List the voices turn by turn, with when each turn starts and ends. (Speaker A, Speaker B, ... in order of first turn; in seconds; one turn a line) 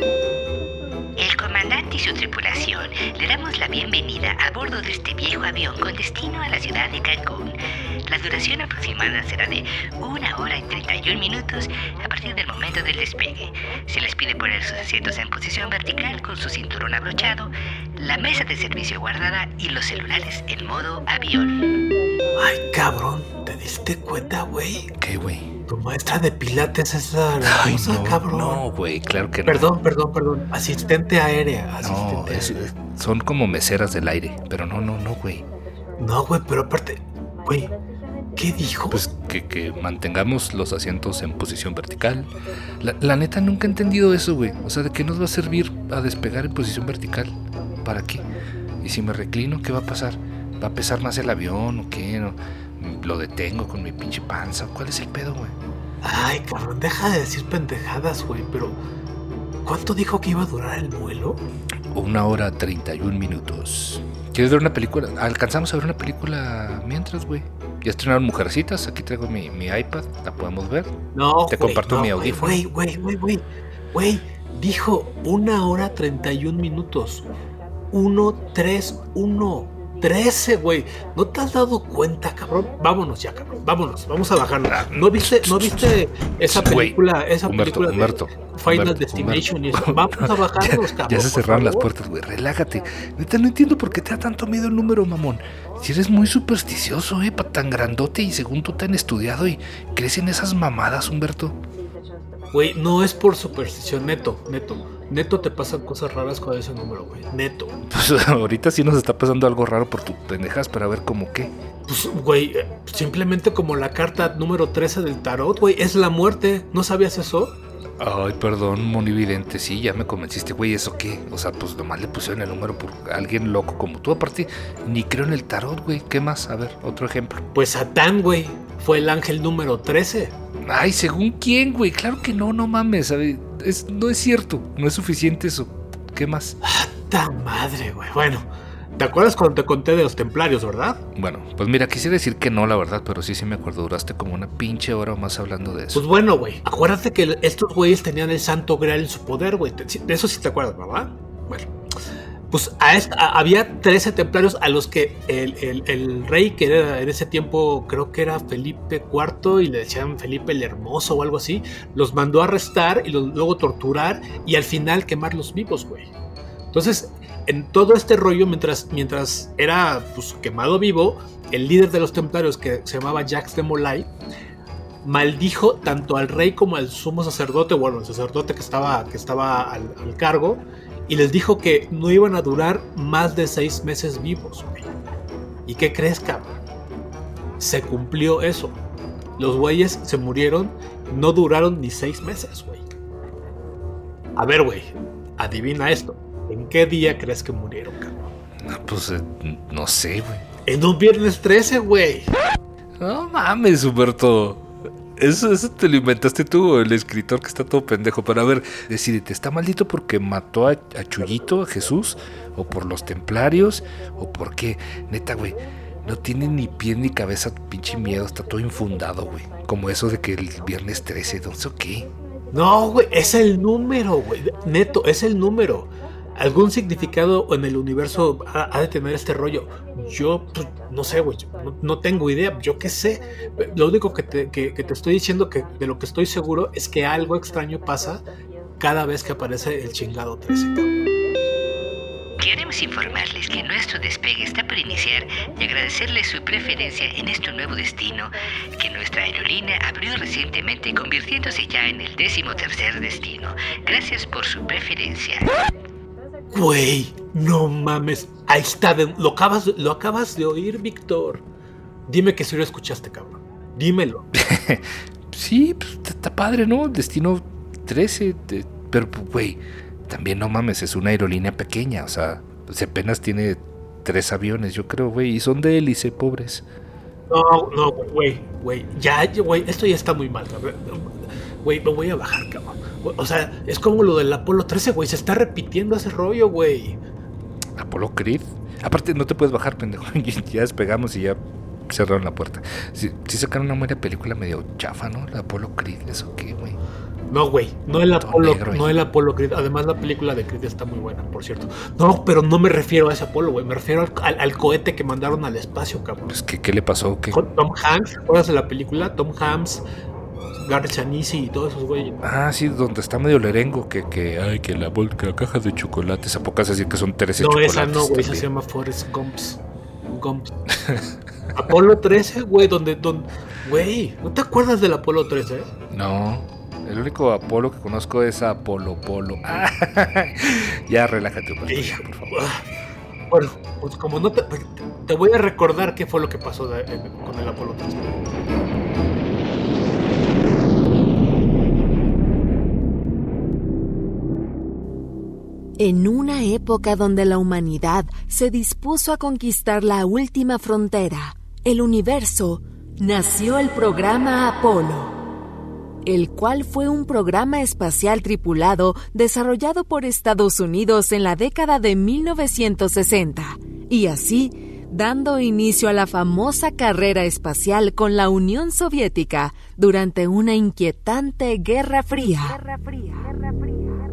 Speaker A: 1.2-21.6
Speaker B: 22.4-24.9
Speaker C: 25.0-25.5
Speaker B: 25.7-28.6
Speaker C: 27.4-29.7
Speaker B: 29.4-32.7
Speaker C: 31.8-35.5
Speaker B: 36.0-37.7
Speaker B: 38.4-39.0
Speaker C: 38.9-48.2
Speaker C: 48.8-55.5
Speaker B: 56.0-58.8
Speaker B: 59.6-61.4
Speaker C: 61.9-70.9
Speaker B: 71.2-77.3
Speaker C: 71.5-72.6
Speaker B: 77.9-91.9
Speaker C: 84.7-101.6
Speaker B: 102.5-107.8
Speaker C: 107.9-111.5
Speaker B: 111.9-117.6
Speaker C: 118.0-127.4
Speaker B: 127.5-130.3
Speaker C: 130.6-136.6
Speaker B: 136.6-138.5
Speaker B: 139.0-141.0
Speaker C: 141.2-146.1
Speaker B: 145.9-151.7
Speaker B: 152.5-166.1
Speaker B: 166.7-174.1
Speaker B: 175.0-184.9
Speaker B: 185.7-186.6
Speaker B: 187.6-188.8
Speaker B: 189.4-192.8
Speaker B: 194.4-198.2
Speaker C: 198.6-200.4
Speaker B: 200.7-202.3
Speaker C: 203.0-222.1
Speaker B: 222.5-238.2
Speaker B: 238.8-240.9
Speaker A: 242.4-255.5
Speaker B: 256.5-261.4
Speaker B: 262.1-264.3
Speaker C: 264.3-276.6
Speaker B: 277.3-287.0
Speaker C: 287.8-296.8
Speaker B: 297.3-306.3
Speaker C: 298.2-298.9
Speaker C: 306.3-307.4
Speaker B: 307.3-309.8
Speaker B: 310.6-312.2
Speaker C: 312.2-318.5
Speaker B: 317.4-320.6
Speaker C: 320.7-321.1
Speaker B: 321.6-325.7
Speaker C: 325.9-332.4
Speaker B: 331.7-332.6
Speaker B: 333.3-338.1
Speaker D: 345.8-355.1
Speaker D: 356.1-373.3